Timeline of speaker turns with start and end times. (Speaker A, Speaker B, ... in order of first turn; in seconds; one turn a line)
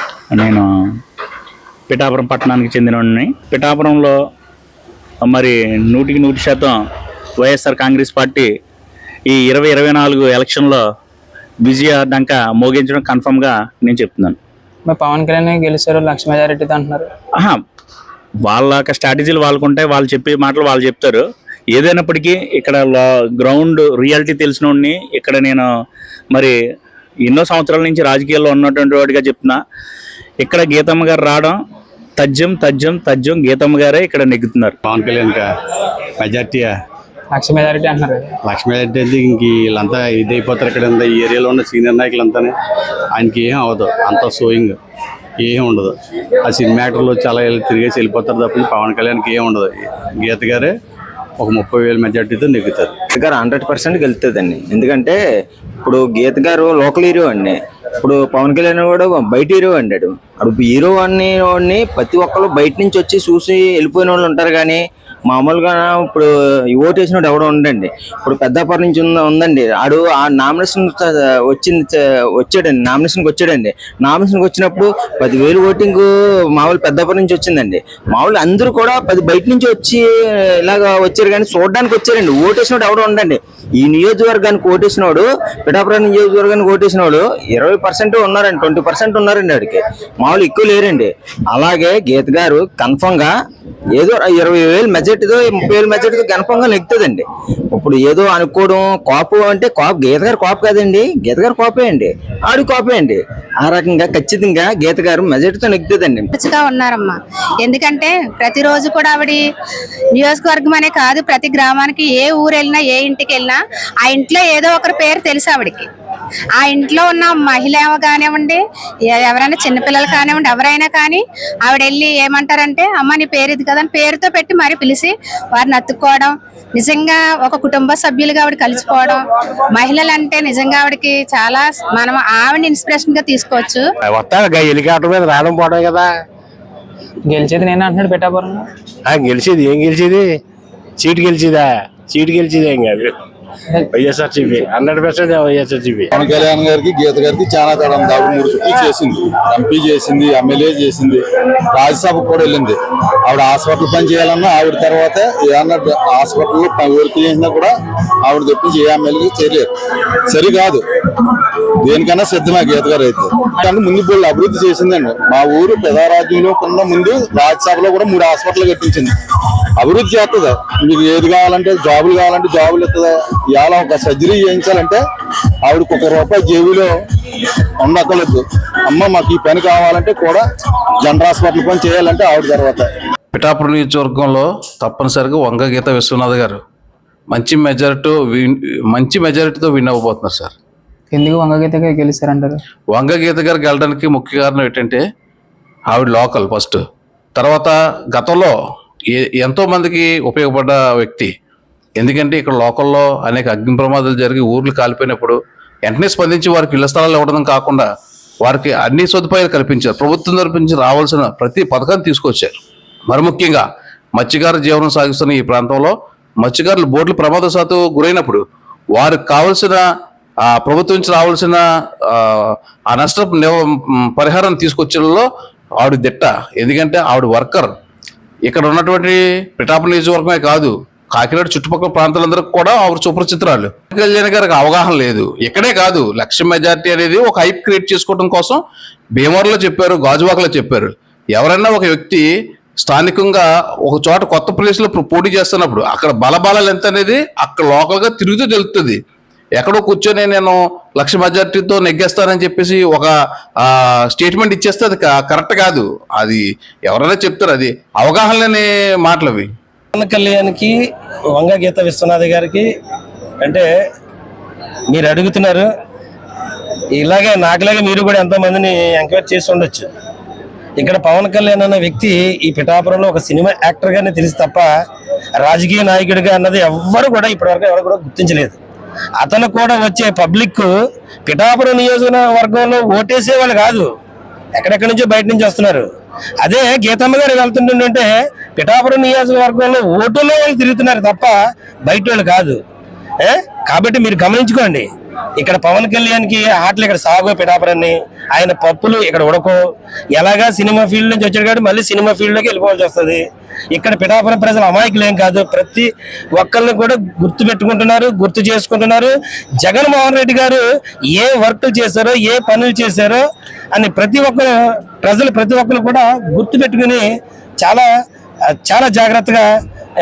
Speaker A: 0.3-0.7
Speaker A: 1.9-4.1
Speaker A: 5.2-6.8
Speaker A: 7.4-8.5
Speaker A: 9.3-10.8
Speaker A: 11.7-14.4
Speaker B: 14.9-17.1
Speaker A: 18.5-21.2
Speaker A: 21.7-25.7
Speaker A: 27.2-29.6
Speaker A: 30.4-31.6
Speaker A: 32.2-34.8
Speaker C: 34.8-35.5
Speaker C: 36.2-36.8
Speaker B: 37.3-38.3
Speaker C: 38.4-42.5
Speaker C: 43.1-44.8
Speaker C: 45.4-50.7
Speaker C: 51.4-52.9
Speaker D: 53.1-55.2
Speaker D: 55.8-80.0
Speaker D: 80.6-93.3
Speaker D: 94.0-106.3
Speaker E: 106.3-109.5
Speaker E: 110.2-115.9
Speaker E: 116.6-129.2
Speaker E: 129.8-133.9
Speaker F: 134.1-136.1
Speaker B: 137.3-138.7
Speaker F: 139.1-140.3
Speaker F: 141.0-143.1
Speaker F: 143.9-146.0
Speaker G: 146.1-157.7
Speaker G: 158.2-159.7
Speaker G: 160.3-169.1
Speaker G: 169.8-175.0
Speaker G: 175.7-176.9
Speaker G: 177.8-180.4
Speaker G: 181.0-182.9
Speaker H: 183.3-186.6
Speaker H: 187.3-190.5
Speaker B: 191.1-192.6
Speaker H: 192.9-195.0
Speaker H: 195.9-196.8
Speaker H: 197.4-198.5
Speaker H: 199.1-201.3
Speaker H: 202.0-207.9
Speaker H: 208.4-213.7
Speaker H: 214.2-218.4
Speaker H: 219.0-219.8
Speaker H: 220.4-221.6
Speaker H: 222.1-225.3
Speaker H: 225.8-227.7
Speaker H: 228.5-238.6
Speaker H: 239.2-242.3
Speaker H: 242.8-249.0
Speaker H: 249.6-253.1
Speaker H: 253.7-259.5
Speaker I: 259.9-260.7
Speaker I: 261.3-262.7
Speaker I: 264.9-265.7
Speaker I: 267.0-269.9
Speaker I: 270.8-274.7
Speaker I: 275.4-278.6
Speaker I: 279.2-280.7
Speaker I: 281.3-283.9
Speaker I: 284.6-285.8
Speaker I: 286.4-292.6
Speaker I: 293.2-294.9
Speaker I: 295.4-299.6
Speaker I: 300.2-303.2
Speaker I: 303.7-313.2
Speaker I: 313.7-317.1
Speaker I: 317.6-317.9
Speaker I: 318.5-319.5